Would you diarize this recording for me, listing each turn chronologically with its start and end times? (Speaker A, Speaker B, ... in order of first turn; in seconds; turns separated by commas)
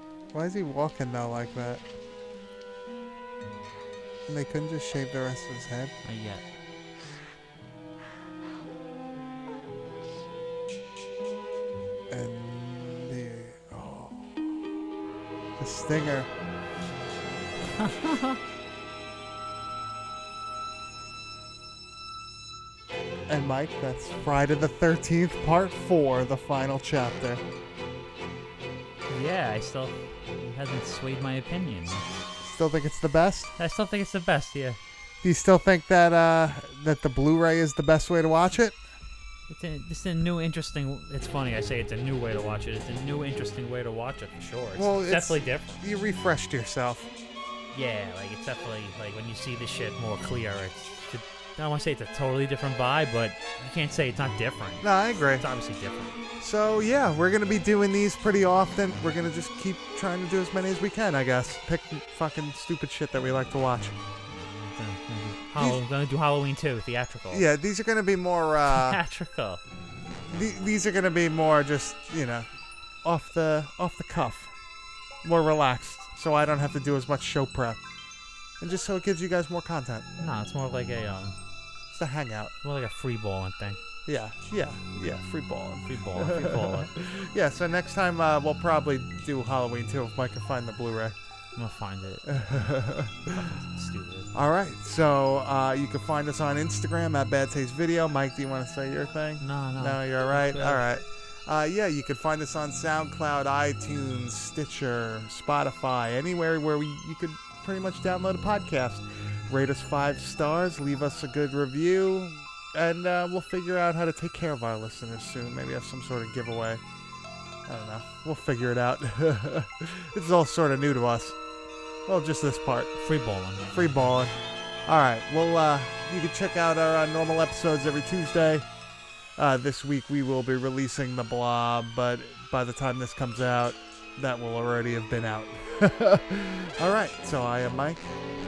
Speaker A: 0.3-1.8, Speaker A: 4.3-5.9, Speaker B: 6.0-6.5, Speaker A: 12.1-14.5, Speaker A: 15.6-16.3, Speaker B: 17.8-18.4, Speaker A: 23.3-27.4, Speaker B: 29.1-32.1, Speaker A: 32.4-33.5, Speaker B: 33.6-34.8, Speaker A: 35.2-38.8, Speaker B: 39.5-45.8, Speaker A: 44.8-47.1, Speaker B: 47.7-56.2, Speaker A: 54.8-55.5, Speaker A: 56.4-64.0, Speaker B: 64.3-67.5, Speaker A: 67.3-69.0, Speaker B: 68.7-69.6, Speaker A: 70.3-72.5, Speaker A: 73.0-74.5, Speaker A: 75.2-77.8, Speaker A: 78.6-80.1, Speaker B: 80.2-81.4, Speaker A: 81.9-82.5, Speaker B: 82.6-83.8, Speaker A: 84.1-91.2, Speaker B: 85.9-86.9, Speaker B: 91.6-94.3, Speaker A: 92.3-93.4, Speaker A: 94.3-116.8, Speaker B: 99.4-100.8, Speaker A: 117.7-121.4, Speaker A: 122.1-123.0, Speaker B: 123.0-123.7, Speaker A: 123.7-124.3, Speaker A: 124.9-128.7, Speaker A: 129.4-138.1